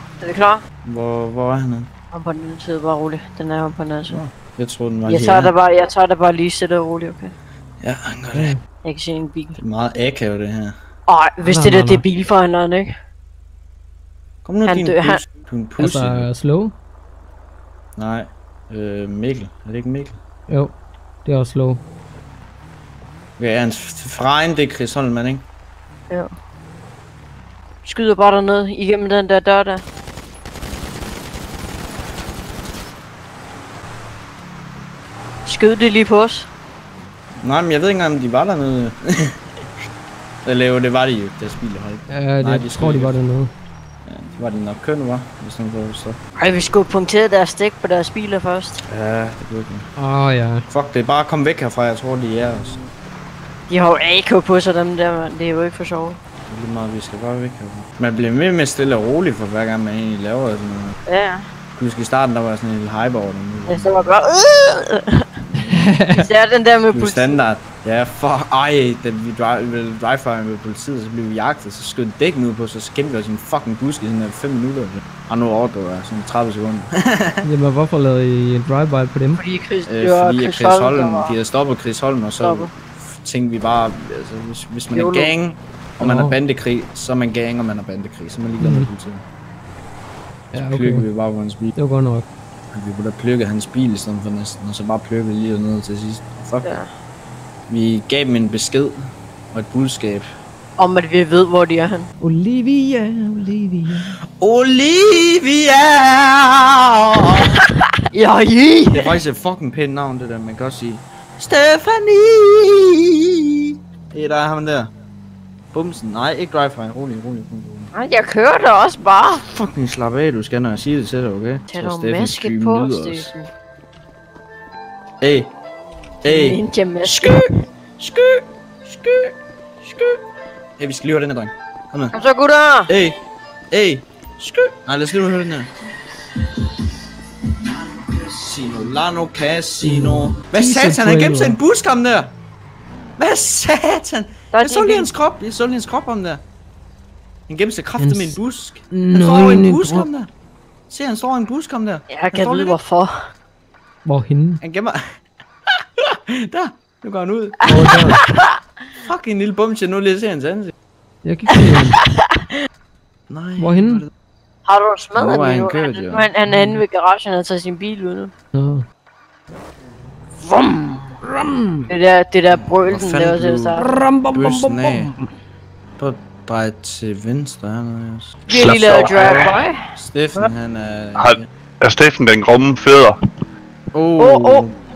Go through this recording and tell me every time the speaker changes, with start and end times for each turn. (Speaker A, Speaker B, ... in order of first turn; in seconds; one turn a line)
Speaker A: 0.2-0.6
Speaker B: 0.8-1.9
Speaker A: 2.1-4.2
Speaker B: 4.1-5.5
Speaker A: 5.1-7.3
Speaker B: 7.8-8.6
Speaker C: 8.3-8.6
Speaker A: 8.8-9.6
Speaker B: 9.6-10.8
Speaker A: 11.1-12.9
Speaker C: 11.4-12.0
Speaker B: 14.4-16.3
Speaker A: 14.7-15.2
Speaker C: 15.8-16.7
Speaker B: 18.0-20.2
Speaker C: 20.5-21.8
Speaker B: 23.4-25.5
Speaker A: 27.8-29.8
Speaker A: 35.5-36.5
Speaker B: 37.4-39.4
Speaker B: 40.5-43.2
Speaker C: 42.1-43.5
Speaker B: 44.0-46.2
Speaker A: 46.4-48.8
Speaker B: 48.9-49.9
Speaker C: 50.0-50.6
Speaker B: 50.7-52.8
Speaker A: 53.7-56.2
Speaker B: 56.5-61.0
Speaker A: 61.1-61.4
Speaker B: 61.8-64.1
Speaker A: 63.7-65.3
Speaker C: 65.7-66.3
Speaker A: 66.1-67.4
Speaker B: 66.9-77.4
Speaker C: 77.4-79.4
Speaker A: 79.4-81.4
Speaker B: 79.9-89.2
Speaker A: 82.4-82.7
Speaker A: 84.9-85.3
Speaker C: 86.0-86.4
Speaker C: 88.6-88.9
Speaker B: 90.5-91.7
Speaker C: 90.5-91.1
Speaker C: 91.8-92.3
Speaker B: 92.7-96.8
Speaker B: 97.7-99.0
Speaker B: 99.5-100.3
Speaker A: 100.8-102.1
Speaker C: 102.2-104.2
Speaker B: 104.3-107.6
Speaker A: 108.1-109.2
Speaker B: 108.9-114.9
Speaker B: 115.7-117.9
Speaker A: 117.9-119.5
Speaker B: 119.5-123.3
Speaker A: 121.7-123.5
Speaker B: 125.2-125.5
Speaker A: 126.2-127.6
Speaker B: 126.2-127.5
Speaker B: 128.0-130.2
Speaker B: 130.8-132.2
Speaker A: 132.1-132.9
Speaker B: 132.9-133.2
Speaker B: 133.7-135.7
Speaker B: 137.9-142.3
Speaker C: 139.8-141.6
Speaker B: 143.2-146.4
Speaker A: 144.5-145.1
Speaker B: 147.5-150.3
Speaker C: 148.0-148.4
Speaker C: 148.9-150.1
Speaker B: 150.9-152.8
Speaker A: 152.1-153.2
Speaker C: 154.1-154.6
Speaker B: 154.6-155.0
Speaker B: 156.0-158.0
Speaker C: 157.7-158.2
Speaker A: 157.7-158.6
Speaker B: 159.1-160.7
Speaker C: 161.2-162.0
Speaker A: 161.6-162.5
Speaker B: 163.3-164.1
Speaker C: 163.6-164.0
Speaker A: 164.7-168.3
Speaker B: 165.2-166.3
Speaker C: 166.5-166.8
Speaker C: 168.5-168.8
Speaker C: 170.6-171.9
Speaker A: 171.9-173.9
Speaker B: 172.8-173.8
Speaker C: 173.8-175.2
Speaker B: 174.3-175.1
Speaker B: 176.0-181.4
Speaker A: 178.5-179.8
Speaker D: 178.5-179.5
Speaker D: 181.2-183.2
Speaker B: 183.9-184.7
Speaker A: 184.2-184.7